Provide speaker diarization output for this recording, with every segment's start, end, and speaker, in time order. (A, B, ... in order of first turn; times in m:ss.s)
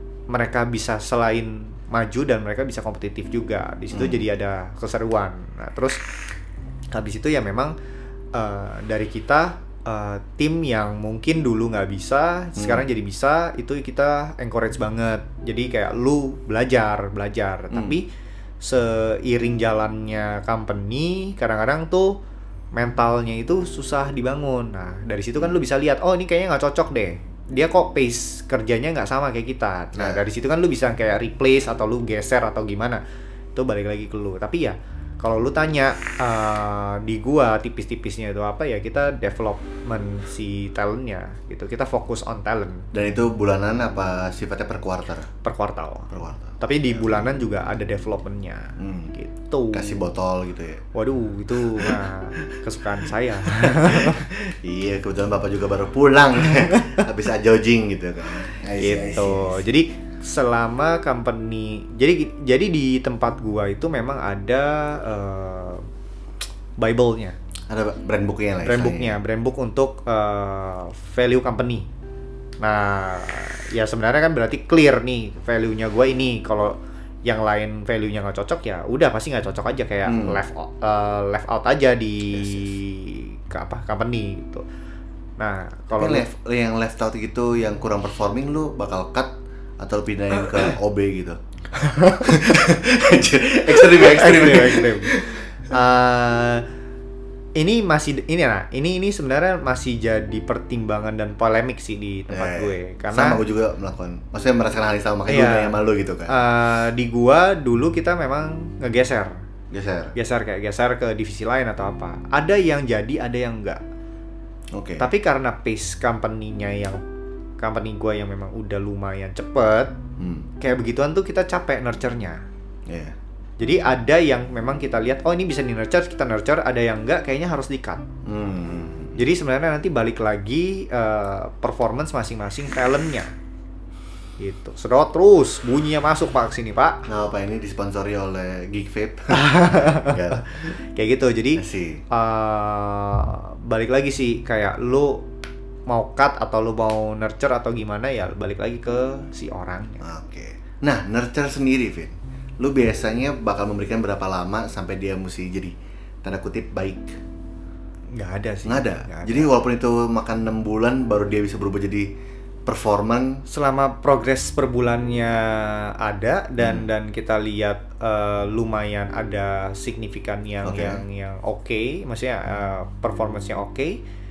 0:00.3-0:06.0 A
0:03.9-0:04.2 B
0:06.9-0:07.7 A
0:08.3-0:18.1 A
0:12.6-0:12.9 B
0:17.7-0:18.0 B
0:18.6-0:22.2 A
0:22.8-0:33.0 A
0:30.0-0:30.2 B
0:33.6-0:42.9 A
0:42.9-0:45.3 B
0:45.4-0:50.1 A
0:46.1-0:47.3 B
0:48.8-0:49.1 B
0:49.7-0:50.8 B
0:51.0-0:54.3 A
0:51.7-0:52.5 B
0:53.5-0:59.7 B
0:58.8-1:05.8 A
1:06.8-1:07.4 A
1:07.7-1:09.2 B
1:08.6-1:11.9 A
1:12.6-1:24.6 A
1:20.1-1:20.4 B
1:22.3-1:22.7 B
1:25.4-1:26.3 A
1:25.9-1:31.4 B
1:31.9-1:32.2 A
1:32.0-1:35.7 B
1:33.7-1:36.7 A
1:37.6-1:43.4 A
1:42.3-1:46.3 B
1:45.3-1:45.8 A
1:46.3-1:49.4 A
1:49.7-1:50.1 B
1:50.2-1:53.8 A
1:54.7-1:55.1 B
1:55.0-1:57.0 A
1:57.6-1:59.9 A
2:00.2-2:00.5 B
2:00.6-2:02.4 A
2:02.9-2:03.2 B
2:03.6-2:08.0 A
2:08.2-2:09.2 B
2:09.2-2:13.3 A
2:14.4-2:17.1 A
2:17.1-2:20.7 B
2:19.3-2:25.3 A
2:21.6-2:22.0 B
2:25.9-2:30.0 A
2:30.0-2:37.2 B
2:38.1-2:39.5 A
2:38.6-2:42.1 B
2:42.7-2:43.4 B
2:43.5-2:54.0 A
2:46.6-2:46.9 B
2:50.6-2:51.0 B